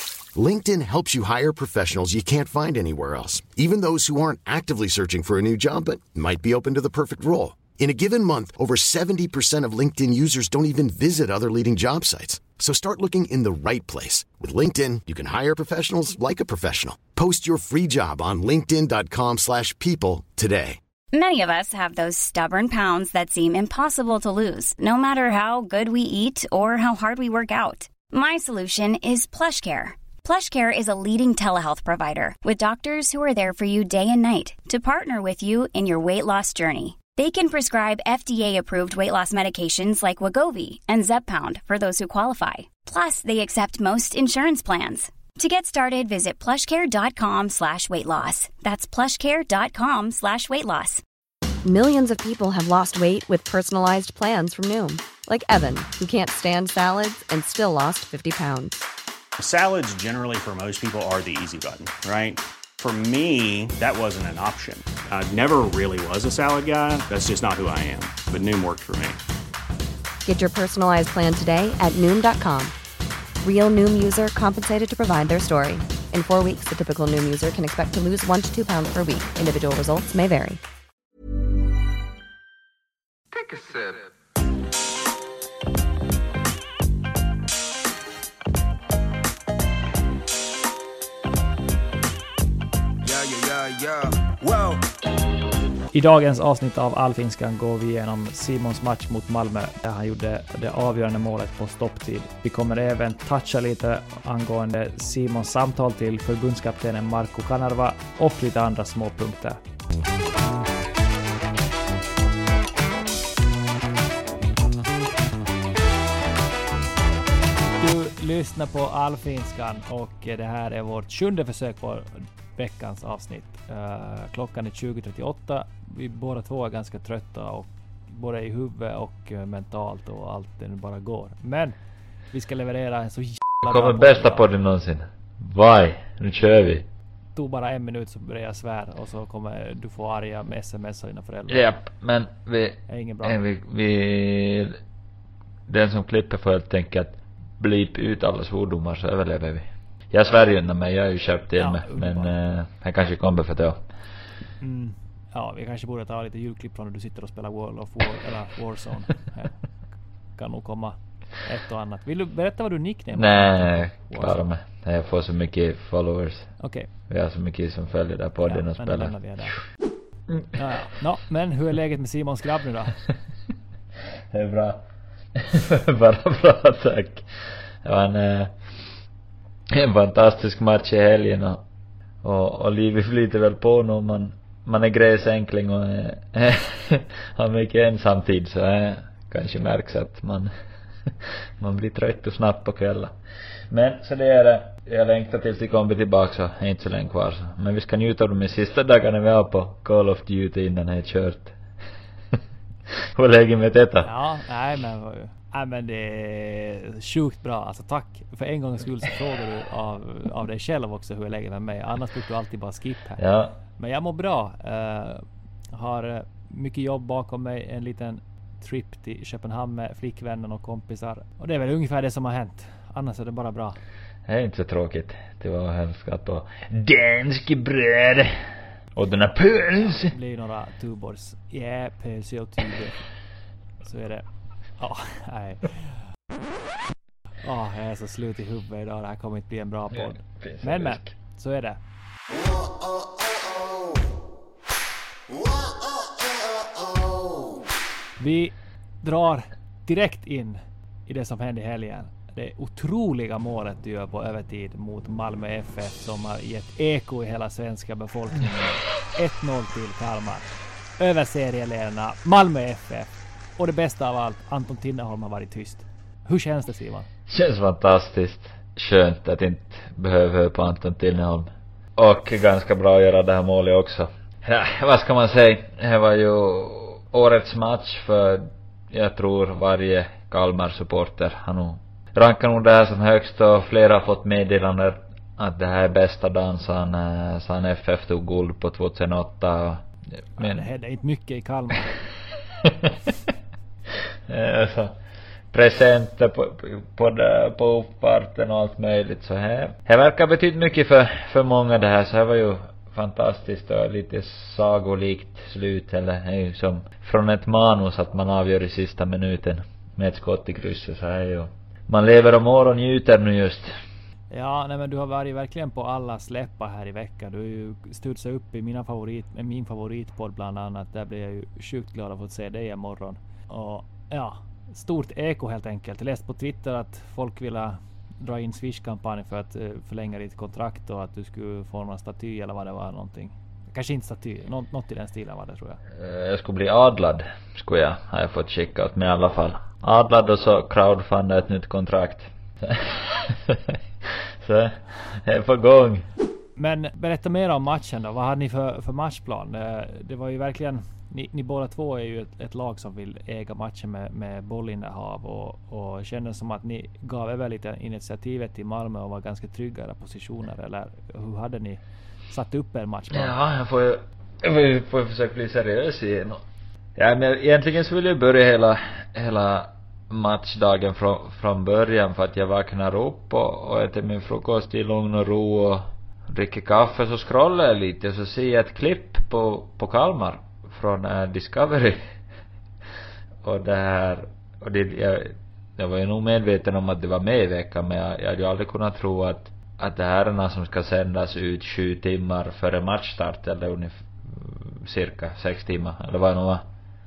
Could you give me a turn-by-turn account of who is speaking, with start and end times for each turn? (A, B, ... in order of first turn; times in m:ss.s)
0:00.4-0:20.8 A
0:21.1-0:51.0 B
0:51.6-0:58.8 C
0:59.4-1:09.2 D
1:10.2-1:12.7 C
1:13.4-1:20.6 C
1:23.3-1:24.1 E
1:33.0-1:34.8 E
1:35.9-1:49.6 F
1:57.8-2:11.8 F
2:12.3-2:14.5 F
2:13.6-2:16.9 G
2:17.4-2:21.6 F
2:21.5-2:24.8 G
2:22.9-2:23.4 F
2:25.7-2:33.8 G
2:31.6-2:32.3 F
2:34.6-2:39.6 F
2:40.4-2:44.5 F
2:43.1-2:46.6 G
2:46.6-2:46.9 F
2:47.1-2:49.5 G
2:48.5-2:49.6 F
2:50.6-2:53.0 F
2:54.3-2:54.8 G
2:55.4-2:57.3 G
2:57.8-2:58.6 G
2:59.7-3:01.6 G
3:02.2-3:10.5 G
3:11.1-3:13.2 G
3:13.7-3:21.6 G
3:23.0-3:24.1 G
3:24.0-3:33.2 F
3:33.2-3:33.6 G
3:33.8-3:43.8 F
3:44.3-3:48.4 G
3:49.0-3:50.1 G
3:49.9-3:53.0 F
3:53.8-3:54.3 F
3:54.8-3:56.0 F
3:57.4-4:01.8 F
3:59.9-4:01.1 G
4:08.2-4:27.1 F
4:27.3-4:50.7 G
4:50.4-4:52.0 F
4:52.6-4:52.9 G
4:54.3-4:55.0 G
4:55.5-5:13.7 G
5:14.3-5:35.8 F
5:35.9-5:43.8 G
5:44.4-5:46.1 G
5:46.6-6:03.4 F
6:03.1-6:06.4 G
6:07.0-6:22.0 G
6:23.4-6:36.6 G